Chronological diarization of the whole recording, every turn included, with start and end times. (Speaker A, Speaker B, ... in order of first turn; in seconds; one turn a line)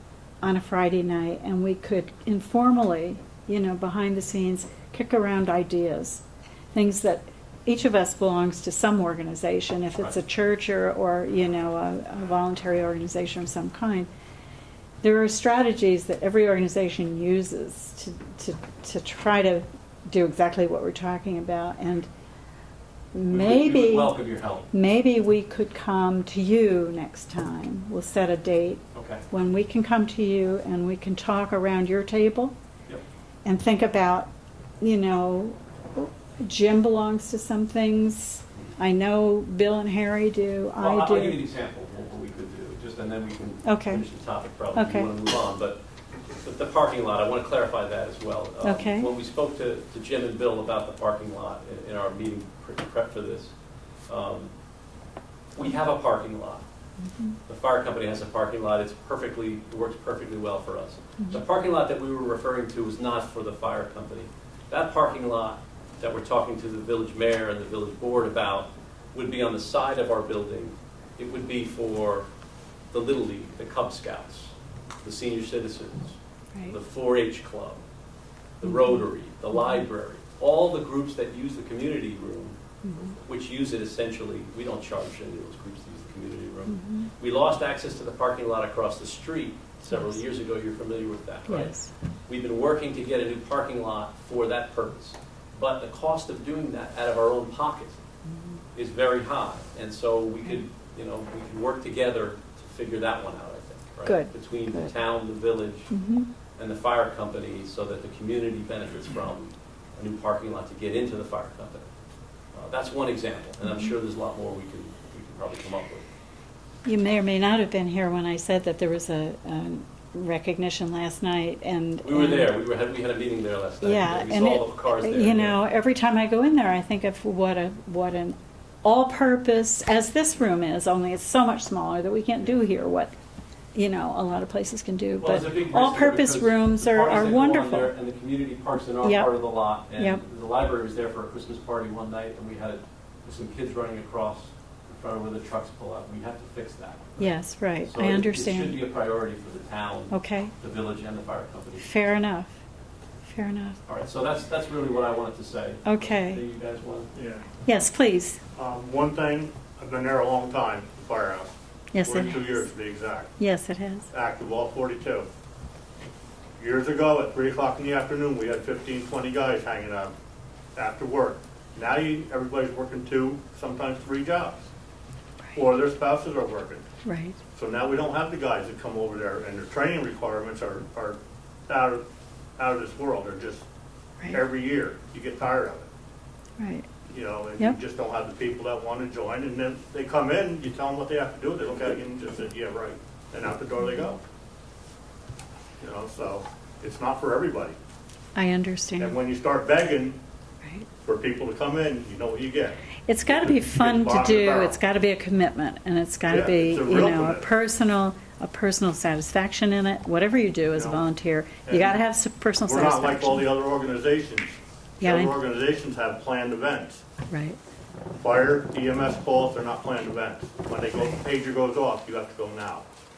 Speaker A: 0.4-14.1
Speaker A: 15.0-22.1
Speaker A: 23.1-24.2
Speaker B: 23.3-24.7
Speaker A: 24.7-32.5
Speaker B: 28.9-29.2
Speaker A: 33.5-34.3
Speaker A: 34.8-41.4
Speaker B: 40.8-45.8
Speaker A: 43.6-44.0
Speaker A: 44.7-45.1
Speaker B: 46.4-53.5
Speaker A: 48.6-49.1
Speaker B: 54.1-54.5
Speaker B: 55.6-56.6
Speaker B: 57.5-72.3
Speaker B: 72.9-74.5
Speaker B: 75.0-77.8
Speaker B: 78.6-82.6
Speaker A: 78.7-79.0
Speaker A: 79.6-79.8
Speaker A: 82.8-83.2
Speaker B: 83.2-98.0
Speaker A: 86.7-87.1
Speaker A: 91.5-91.9
Speaker B: 98.8-105.9
Speaker A: 104.0-104.9
Speaker A: 105.9-106.3
Speaker B: 106.6-111.9
Speaker B: 112.5-116.1
Speaker A: 113.7-113.9
Speaker A: 116.8-122.5
Speaker B: 122.0-125.6
Speaker A: 123.8-133.1
Speaker A: 133.8-137.9
Speaker B: 135.2-147.3
Speaker A: 139.0-140.2
Speaker A: 147.2-148.8
Speaker B: 147.8-151.9
Speaker A: 150.1-150.5
Speaker A: 151.8-152.6
Speaker A: 153.2-153.8
Speaker B: 153.9-157.1
Speaker A: 155.8-156.4
Speaker C: 157.1-157.5
Speaker A: 157.7-158.4
Speaker C: 158.6-163.3
Speaker A: 161.9-162.7
Speaker A: 163.4-164.1
Speaker C: 164.1-165.3
Speaker C: 166.6-170.1
Speaker C: 170.8-174.7
Speaker C: 175.5-176.9
Speaker A: 177.1-177.4
Speaker C: 177.6-182.0
Speaker C: 182.6-183.7
Speaker C: 184.3-185.9
Speaker A: 186.6-186.9
Speaker C: 187.1-194.2
Speaker C: 195.8-197.8
Speaker A: 198.4-199.1
Speaker C: 199.0-200.2
Speaker C: 201.0-204.8
Speaker A: 203.1-213.5
Speaker C: 206.3-207.5
Speaker C: 210.7-211.0
Speaker C: 211.7-212.0
Speaker C: 212.7-217.0
Speaker A: 215.0-215.4
Speaker A: 217.3-217.6
Speaker C: 218.2-222.9